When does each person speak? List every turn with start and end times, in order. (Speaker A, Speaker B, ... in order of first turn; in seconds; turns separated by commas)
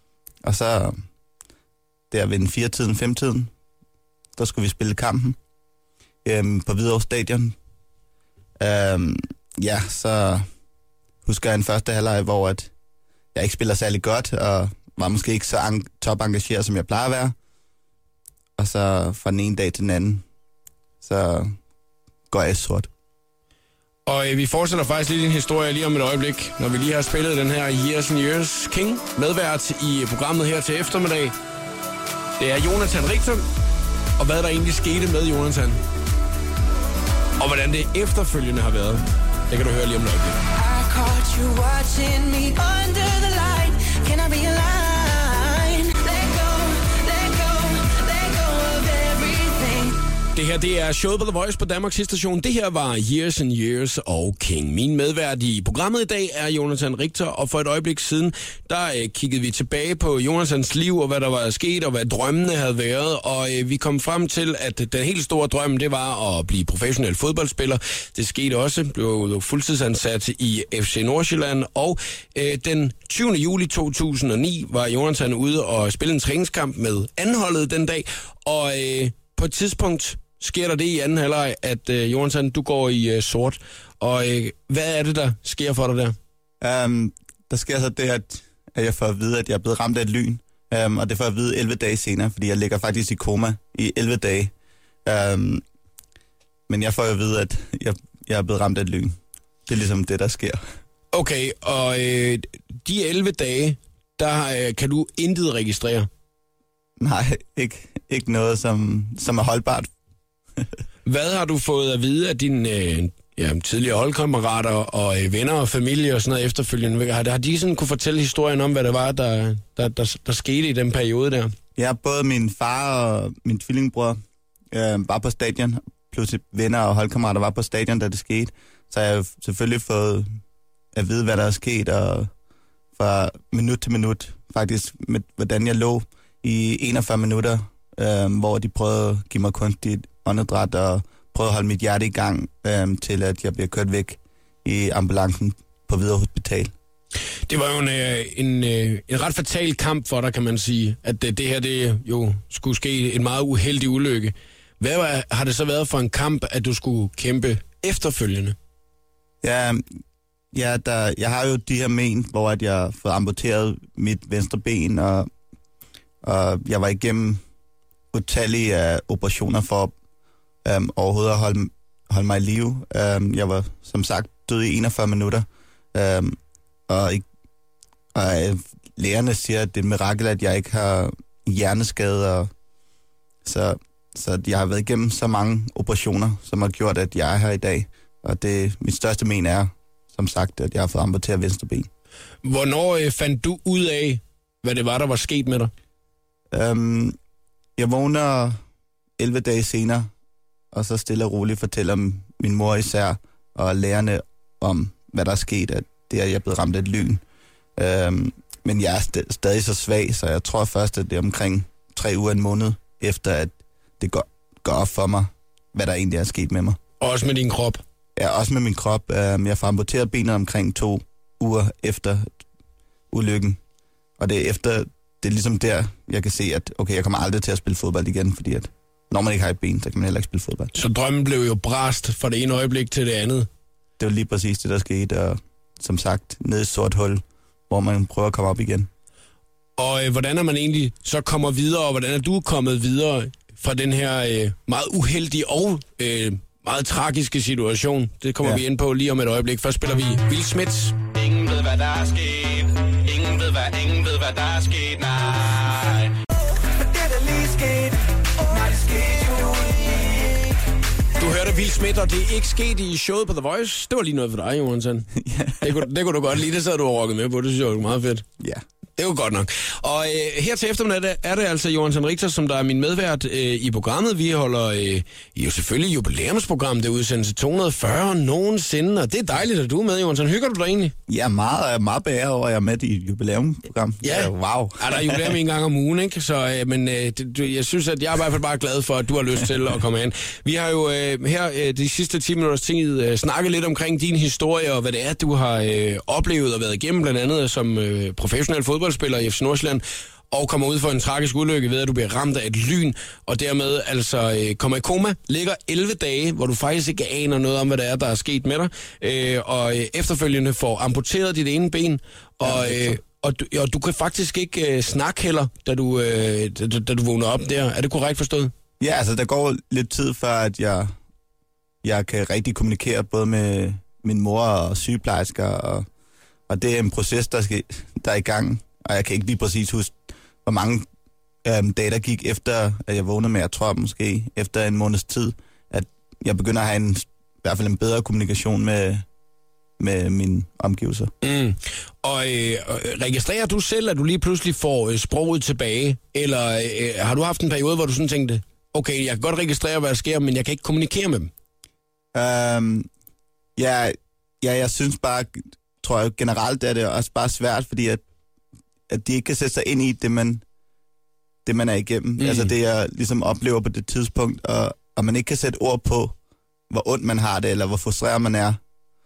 Speaker A: 0.4-1.0, Speaker A: 2.1-3.5, Speaker A: 4.3-5.4, Speaker A: 6.2-7.5, Speaker A: 8.6-10.4, Speaker A: 11.2-12.7, Speaker A: 13.3-17.3, Speaker A: 18.6-20.2, Speaker A: 21.0-21.5, Speaker A: 22.3-22.9, Speaker B: 24.1-31.4, Speaker B: 32.4-33.4, Speaker B: 34.2-35.8, Speaker B: 37.4-40.4, Speaker C: 40.5-50.0, Speaker B: 50.3-86.2, Speaker A: 86.6-94.5, Speaker A: 95.0-95.6, Speaker A: 96.7-100.6, Speaker B: 101.1-106.1, Speaker A: 107.0-109.9, Speaker B: 111.0-121.5, Speaker A: 121.8-124.2, Speaker A: 124.7-130.3, Speaker A: 130.9-132.3, Speaker A: 132.9-146.7, Speaker B: 147.5-158.6, Speaker A: 159.4-159.8, Speaker A: 160.5-165.3, Speaker A: 166.2-167.4, Speaker A: 168.1-169.9, Speaker A: 170.6-177.2, Speaker A: 178.1-182.5, Speaker A: 183.4-191.9, Speaker B: 192.4-195.7, Speaker A: 196.5-197.2, Speaker A: 197.8-198.6, Speaker A: 199.2-200.1, Speaker A: 200.7-207.2, Speaker A: 207.8-216.8, Speaker B: 217.0-217.8, Speaker A: 218.2-222.3, Speaker A: 223.1-223.6, Speaker A: 224.2-230.7, Speaker B: 230.7-233.5, Speaker A: 234.0-238.9, Speaker B: 239.8-250.9, Speaker D: 251.1-256.1, Speaker C: 256.7-260.1, Speaker B: 261.2-268.2, Speaker A: 265.2-265.8, Speaker B: 269.0-280.9, Speaker A: 281.1-285.4, Speaker B: 284.0-318.5, Speaker A: 312.4-313.0, Speaker A: 318.8-320.9, Speaker A: 321.8-325.9, Speaker A: 326.5-330.9, Speaker A: 331.4-339.1, Speaker A: 339.8-341.1, Speaker B: 341.2-351.3, Speaker A: 352.1-352.9, Speaker A: 353.6-358.0, Speaker A: 358.9-360.4, Speaker A: 361.4-366.1, Speaker B: 362.2-362.5, Speaker A: 366.7-368.6